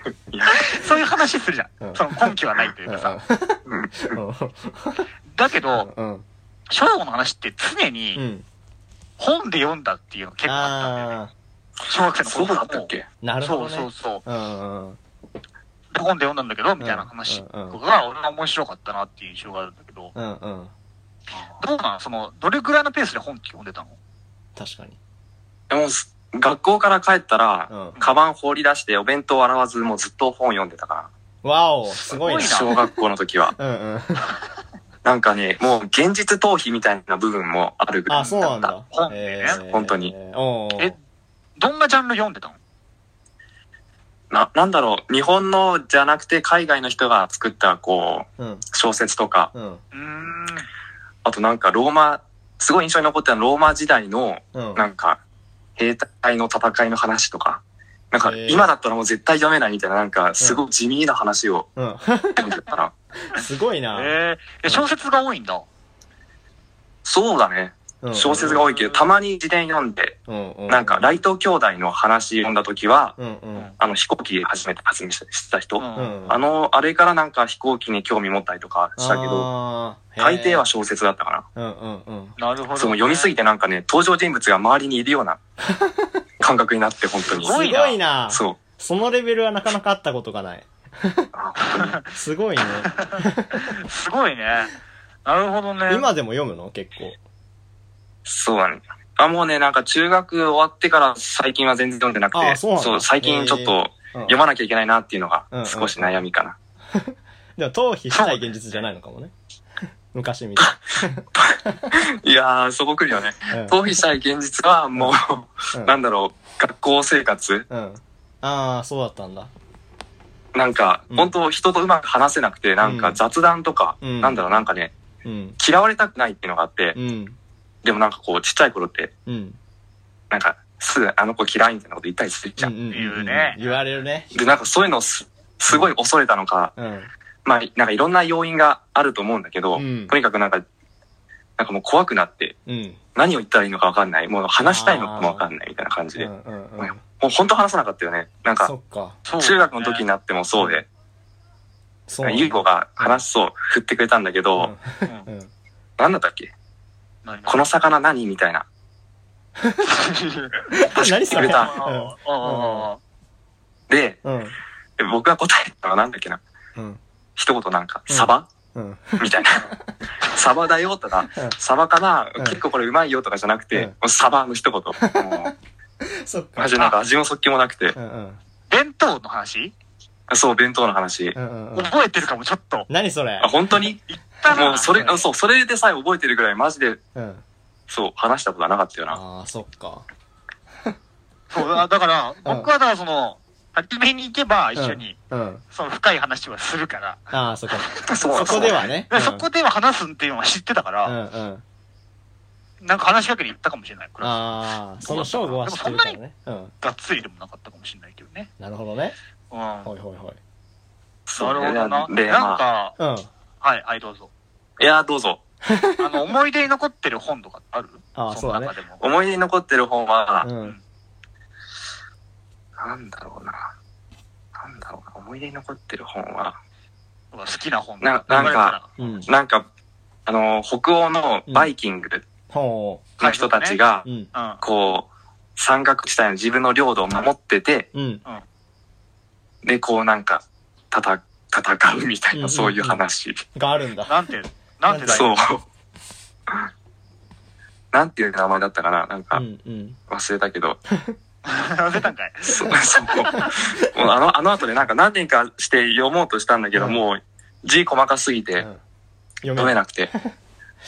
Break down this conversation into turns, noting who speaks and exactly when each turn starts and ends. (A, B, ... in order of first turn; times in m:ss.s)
0:00.3-0:00.7 A
0:00.5-0:03.2 B
0:01.8-0:02.3 C
0:02.8-0:05.1 C
0:03.6-0:04.2 A
0:05.3-0:05.9 B
0:05.7-0:06.2 C
0:06.7-0:08.2 B
0:08.1-0:08.4 C
0:09.2-0:11.1 B
0:10.4-0:11.3 C
0:11.9-0:12.9 B
0:12.2-0:13.0 A
0:13.2-0:15.0 C
0:13.4-0:14.2 B
0:15.9-0:20.1 B
0:16.8-0:17.8 C
0:20.1-0:20.7 C
0:21.4-0:24.0 B
0:24.6-0:25.0 C
0:25.7-0:31.1 A
0:27.7-0:28.0 C
0:31.4-0:32.6 C
0:31.9-0:32.8 B
0:32.4-0:33.5 A
0:33.6-0:34.3 C
0:35.0-0:38.7 A
0:38.1-0:40.9 C
0:38.9-0:39.6 B
0:39.5-0:40.1 A
0:41.6-0:42.6 B
0:44.3-0:49.5 A
0:48.4-0:48.6 C
0:49.5-0:49.8 C
0:49.9-0:50.6 B
0:51.2-0:55.2 A
0:54.5-0:54.8 C
0:55.8-1:01.7 A
0:58.2-0:58.7 C
1:01.8-1:02.4 C
1:02.4-1:02.9 A
1:03.3-1:04.1 C
1:03.9-1:05.6 B
1:07.0-1:10.2 A
1:08.0-1:08.6 C
1:08.4-1:09.1 B
1:10.3-1:11.0 C
1:10.7-1:13.2 A
1:13.2-1:13.7 C
1:13.8-1:19.5 A
1:15.8-1:16.2 B
1:15.9-1:16.4 C
1:19.0-1:20.6 C
1:20.2-1:21.4 A
1:21.6-1:22.4 C
1:22.4-1:23.3 B
1:22.8-1:25.4 A
1:25.6-1:26.2 C
1:26.4-1:27.5 A
1:27.4-1:28.0 B
1:27.4-1:31.3 C
1:28.3-1:28.6 A
1:31.3-1:32.0 A
1:31.6-1:32.1 B
1:32.1-1:33.6 C
1:32.9-1:34.7 B
1:35.2-1:36.1 B
1:35.9-1:37.2 C
1:38.2-1:46.6 A
1:42.3-1:44.4 C
1:45.5-1:46.2 C
1:46.9-1:49.3 C
1:48.1-1:48.8 B
1:50.1-1:52.0 C
1:51.3-1:57.6 A
1:53.5-1:53.8 C
1:57.7-1:59.5 C
2:00.5-2:04.9 A
2:02.8-2:03.2 C
2:04.0-2:04.4 C
2:05.2-2:05.6 C
2:05.6-2:07.0 A
2:06.9-2:07.4 C
2:07.8-2:09.1 A
2:09.2-2:09.6 C
2:10.3-2:12.8 A
2:12.6-2:14.3 C
2:12.9-2:13.7 B
2:14.3-2:16.7 A
2:16.8-2:17.1 C
2:17.4-2:20.6 A
2:19.7-2:20.2 C
2:21.6-2:22.6 A
2:22.6-2:23.0 C
2:23.2-2:28.7 A
2:24.6-2:25.4 C
2:26.2-2:27.0 C
2:28.6-2:29.2 C
2:29.2-2:30.0 B
2:29.4-2:30.8 A
2:32.1-2:33.2 C
2:32.2-2:34.7 A
2:34.6-2:35.5 C
2:36.0-2:36.5 A
2:37.2-2:37.6 B
2:37.5-2:38.6 A
2:39.6-2:39.8 C
2:39.8-2:43.0 B
2:40.7-2:42.9 C
2:41.0-2:41.7 A
2:43.9-2:44.2 A
2:44.2-2:44.5 C
2:45.0-2:46.4 A
2:47.4-2:48.4 A
2:48.1-2:49.9 C
2:49.2-2:49.7 A
2:50.2-2:55.5 A
2:55.0-2:56.8 C
2:56.6-2:58.0 A
2:57.9-2:58.4 C
2:58.7-2:59.7 B
3:00.3-3:01.4 A
3:01.3-3:01.9 C
3:01.7-3:02.9 B
3:02.9-3:03.6 C
3:03.4-3:07.0 A
3:04.1-3:05.2 B
3:07.1-3:07.4 C
3:07.9-3:09.2 A
3:09.1-3:10.0 C
3:11.5-3:15.2 B
3:12.4-3:12.7 C
3:14.8-3:15.6 C
3:15.7-3:17.3 B
3:17.3-3:19.5 C
3:17.8-3:21.2 B
3:18.1-3:18.9 A
3:21.0-3:21.6 C
3:22.8-3:24.4 B
3:24.2-3:26.7 C
3:25.0-3:26.2 B
3:26.8-3:28.5 B
3:28.6-3:29.2 C
3:29.5-3:29.9 B
3:29.8-3:30.4 C
3:31.3-3:32.6 A
3:31.4-3:32.9 B
3:33.0-3:33.3 C
3:33.6-3:34.3 B
3:34.8-3:35.4 A
3:35.6-3:36.2 C
3:36.0-3:39.0 B
3:38.1-3:38.7 C
3:39.0-3:40.5 A
3:40.4-3:40.8 C
3:42.8-3:43.6 A
3:44.6-3:46.6 A
3:47.3-3:48.9 B
3:48.0-3:49.6 A
3:48.3-3:49.3 C
3:50.2-3:52.2 A
3:52.5-3:53.1 C
3:53.2-3:53.8 B
3:53.2-3:54.0 A
3:54.0-3:54.3 C
3:54.3-3:54.6 B
3:54.6-3:57.9 A
3:57.9-3:58.2 C
3:59.6-4:03.4 A
4:02.3-4:03.0 C
4:03.5-4:04.1 C
4:04.0-4:05.4 B
4:04.9-4:05.4 C
4:05.1-4:05.6 A
4:07.9-4:09.4 A
4:09.3-4:10.0 C
4:10.1-4:10.8 A
4:11.5-4:12.8 B
4:12.4-4:18.7 A
4:13.4-4:14.1 C
4:16.7-4:17.0 C
4:19.4-4:20.3 C
4:19.6-4:20.1 A